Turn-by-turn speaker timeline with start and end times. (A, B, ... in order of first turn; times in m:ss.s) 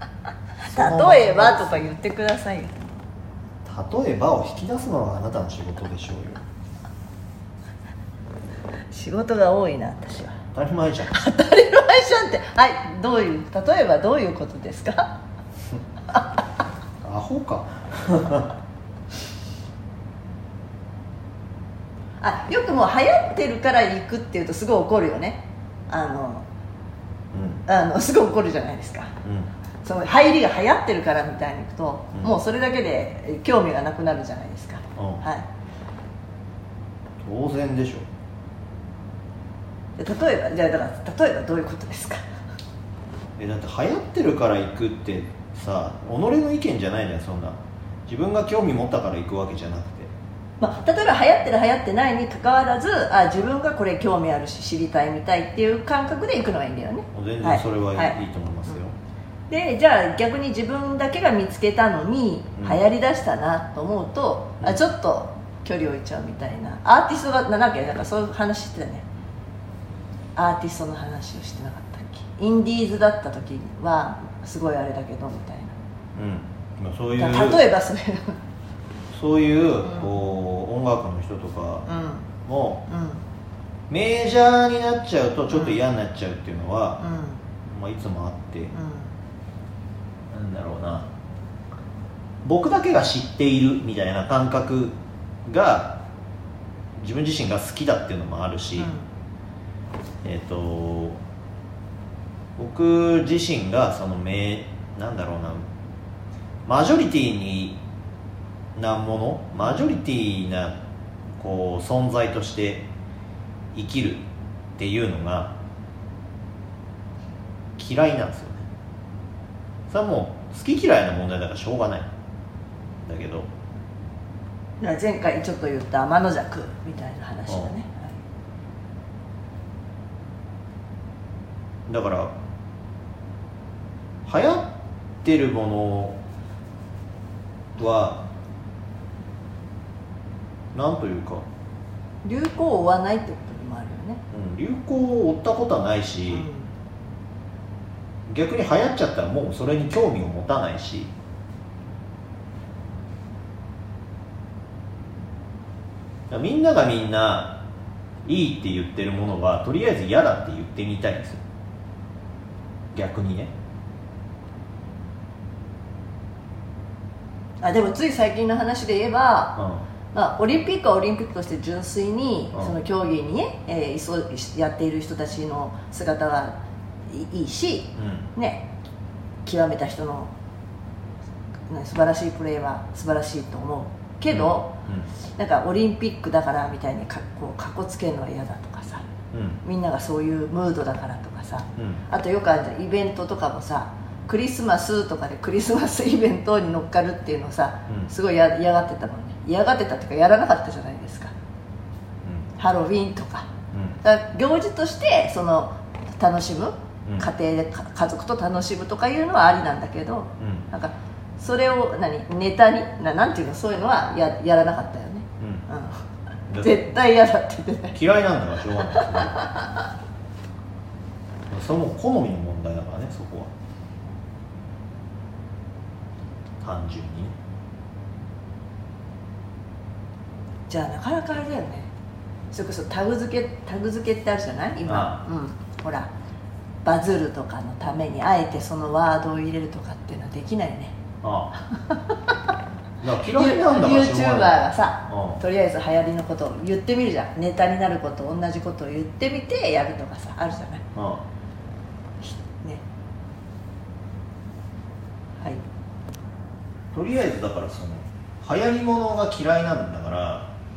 0:00.6-0:02.7 A
0:00.6-0:01.9 B
0:03.6-0:06.4 B
0:08.9-0:10.4 A
0:10.5-0:11.2 B
0:11.1-0:15.2 A
0:17.0-0:18.5 B
0:22.2-0:26.4 A
0:27.3-0:27.6 B
0:27.6-0:29.1 A
0:29.2-0:29.5 B
0:29.8-0:35.4 A
0:35.0-0:35.2 B
0:37.2-0:38.0 B
0:40.0-0:42.2 A
0:43.4-0:50.1 B
0:50.6-0:58.2 A
0:57.1-0:58.9 B
0:59.5-1:09.0 A
1:10.4-1:15.7 A
1:16.1-1:17.6 B
1:17.2-1:18.4 A
1:19.1-1:21.9 B
1:19.8-1:20.1 A
1:21.9-1:22.3 A
1:22.4-1:22.8 B
1:22.9-1:23.2 A
1:23.9-1:27.0 B
1:25.5-1:25.8 A
1:27.0-1:27.4 A
1:27.6-1:28.7 B
1:28.7-1:29.2 A
1:30.3-1:31.1 B
1:32.4-1:36.0 B
1:37.0-1:38.9 B
1:38.8-1:39.1 A
1:40.2-1:41.2 B
1:42.6-1:45.6 B
1:46.6-1:47.8 B
1:48.8-1:50.8 B
1:51.4-1:52.9 B
1:53.7-1:54.2 B
1:54.8-1:55.5 B
1:57.8-1:58.6 B
1:59.9-2:02.1 B
2:03.0-2:03.5 B
2:04.8-2:08.2 A
2:07.5-2:07.7 B
2:11.9-2:12.3 B
2:14.2-2:14.7 B
2:15.2-2:16.2 B
2:17.8-2:18.2 B
2:20.7-2:21.4 B
2:22.2-2:24.2 A
2:24.3-2:26.5 B
2:26.3-2:26.7 A
2:28.3-2:31.1 B
2:36.3-2:37.6 B
2:38.2-2:41.4 B
2:42.9-2:43.5 B
2:47.6-2:49.6 A
2:49.6-2:49.8 B
2:50.1-2:58.7 A
2:58.0-2:58.3 B
2:59.4-3:00.3 A
3:01.7-3:04.7 A
3:04.3-3:05.1 B
3:05.4-3:09.1 A
3:09.3-3:09.6 B
3:09.6-3:21.3 A
3:11.8-3:12.0 B
3:22.2-3:22.5 B
3:22.6-3:23.5 A
3:23.7-3:24.0 B
3:24.0-3:36.0 A
3:27.0-3:27.3 B
3:30.4-3:30.7 B
3:35.4-3:35.6 B
3:36.5-3:36.8 B
3:36.6-3:38.0 A
3:37.9-3:39.4 B
3:38.9-3:39.7 A
3:41.5-3:43.5 B
3:46.6-3:47.3 B
3:50.7-3:51.9 A
3:52.5-3:56.1 A
3:54.8-3:55.2 B
3:56.8-4:01.0 A
4:01.2-4:01.5 B
4:01.7-4:02.3 A
4:03.0-4:05.4 B
4:03.3-4:10.8 A
4:10.9-4:11.2 B
4:12.2-4:12.8 A
4:16.9-4:20.5 B